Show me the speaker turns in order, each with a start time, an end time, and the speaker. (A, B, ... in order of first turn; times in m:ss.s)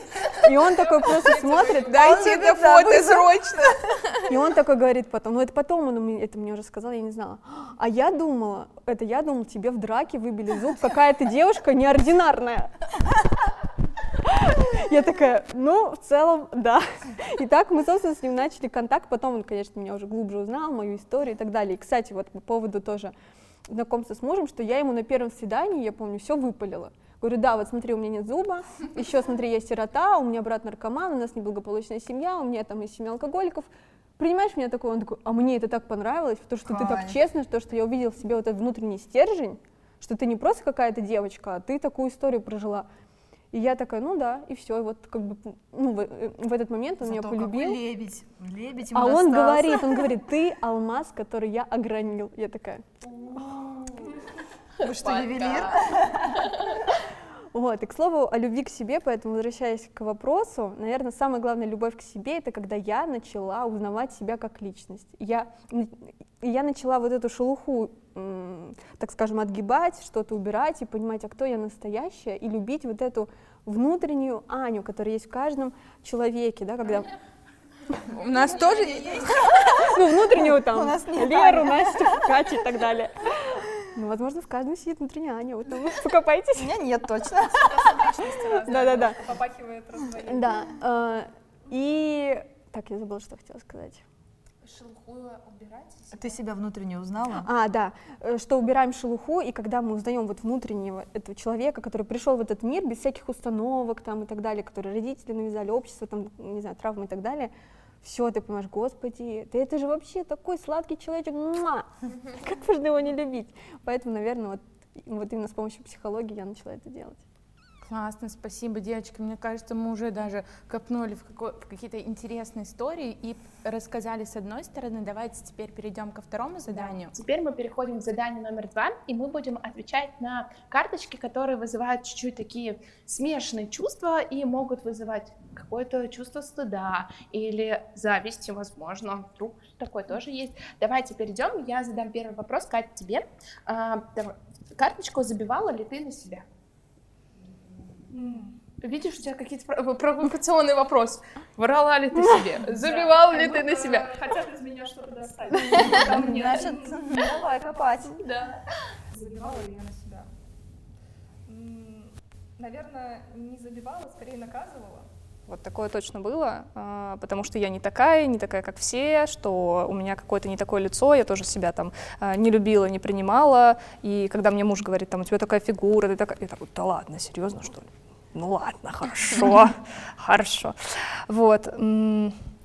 0:00.2-0:02.3 A
0:01.3-0:03.9 B
0:01.8-0:03.7 C
0:01.9-0:03.9 D
0:04.2-0:12.7 A
0:14.2-0:23.1 A
0:23.7-0:42.9 A
0:36.6-0:37.2 D
0:43.5-0:47.8 A
0:47.0-0:50.1 D
0:48.9-0:52.9 A
0:53.1-0:54.2 B
0:54.8-0:57.0 B
0:54.8-0:56.5 D
0:57.5-1:17.1 A
1:18.1-1:19.5 C
1:18.1-1:19.5 B
1:19.5-1:22.3 D
1:19.7-1:26.8 A
1:26.5-1:28.0 D
1:27.5-1:30.6 E
1:28.5-1:29.2 A
1:30.2-1:34.0 A
1:34.6-1:36.4 B
1:36.1-1:37.5 D
1:37.4-1:57.2 A
1:57.8-2:07.1 C
2:07.0-2:26.4 B
2:28.1-2:28.6 E
2:28.8-2:34.1 B
2:32.8-2:37.2 E
2:35.7-2:36.6 B
2:35.7-2:38.2 D
2:38.2-2:38.6 B
2:39.1-2:40.3 E
2:41.5-3:02.3 E